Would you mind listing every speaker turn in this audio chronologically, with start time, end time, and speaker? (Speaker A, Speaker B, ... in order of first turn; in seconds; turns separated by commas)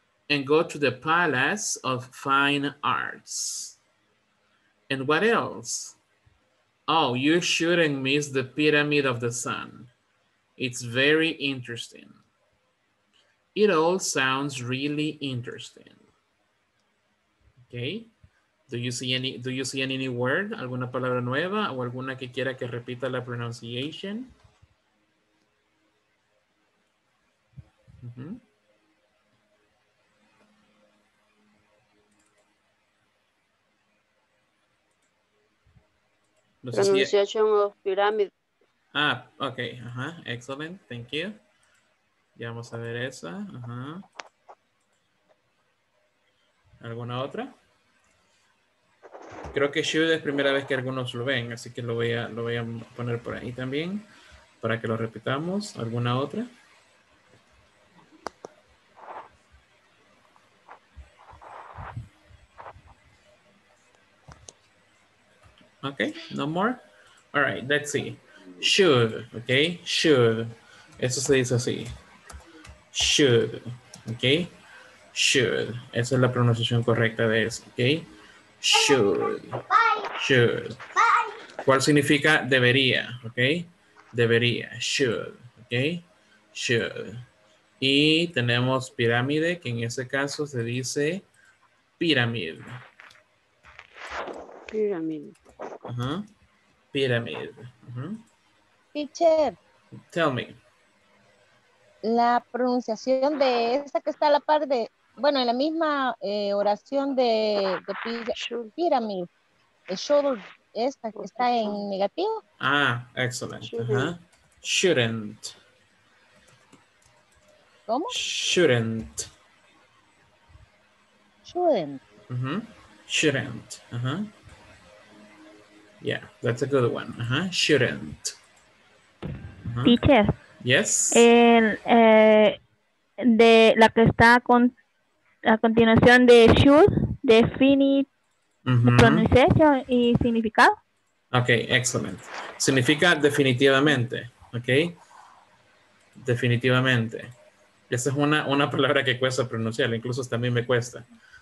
Speaker A: 0.3-3.8, Speaker A: 4.9-6.0, Speaker A: 6.9-9.9, Speaker A: 10.6-12.2, Speaker A: 13.6-16.0, Speaker A: 17.7-18.1, Speaker A: 18.7-24.3, Speaker A: 28.0-28.4, Speaker A: 36.6-37.1, Speaker B: 36.7-38.3, Speaker A: 38.9-41.4, Speaker A: 42.4-44.0, Speaker A: 46.8-47.5, Speaker A: 49.5-54.1, Speaker A: 54.6-56.5, Speaker A: 65.8-66.8, Speaker A: 67.3-71.9, Speaker A: 72.9-74.5, Speaker A: 75.1-78.1, Speaker A: 78.6-79.6, Speaker A: 80.2-80.8, Speaker A: 81.6-87.2, Speaker A: 87.8-91.2, Speaker A: 92.0-92.8, Speaker B: 94.7-95.3, Speaker A: 95.9-96.3, Speaker A: 96.9-98.2, Speaker C: 98.9-99.6, Speaker A: 100.1-100.6, Speaker C: 102.1-109.3, Speaker B: 108.3-108.7, Speaker C: 109.9-112.4, Speaker B: 111.2-111.8, Speaker A: 112.6-115.6, Speaker B: 113.7-114.1, Speaker C: 117.9-118.1, Speaker A: 118.1-119.3, Speaker C: 121.5-122.0, Speaker A: 122.3-124.3, Speaker A: 126.0-128.4, Speaker A: 129.7-130.0, Speaker D: 129.8-130.3, Speaker A: 130.6-131.3, Speaker D: 131.1-132.6, Speaker D: 133.2-134.7, Speaker D: 135.5-138.1, Speaker A: 138.7-139.3, Speaker D: 138.8-140.8, Speaker A: 141.3-145.0, Speaker A: 146.2-147.3, Speaker A: 147.9-151.1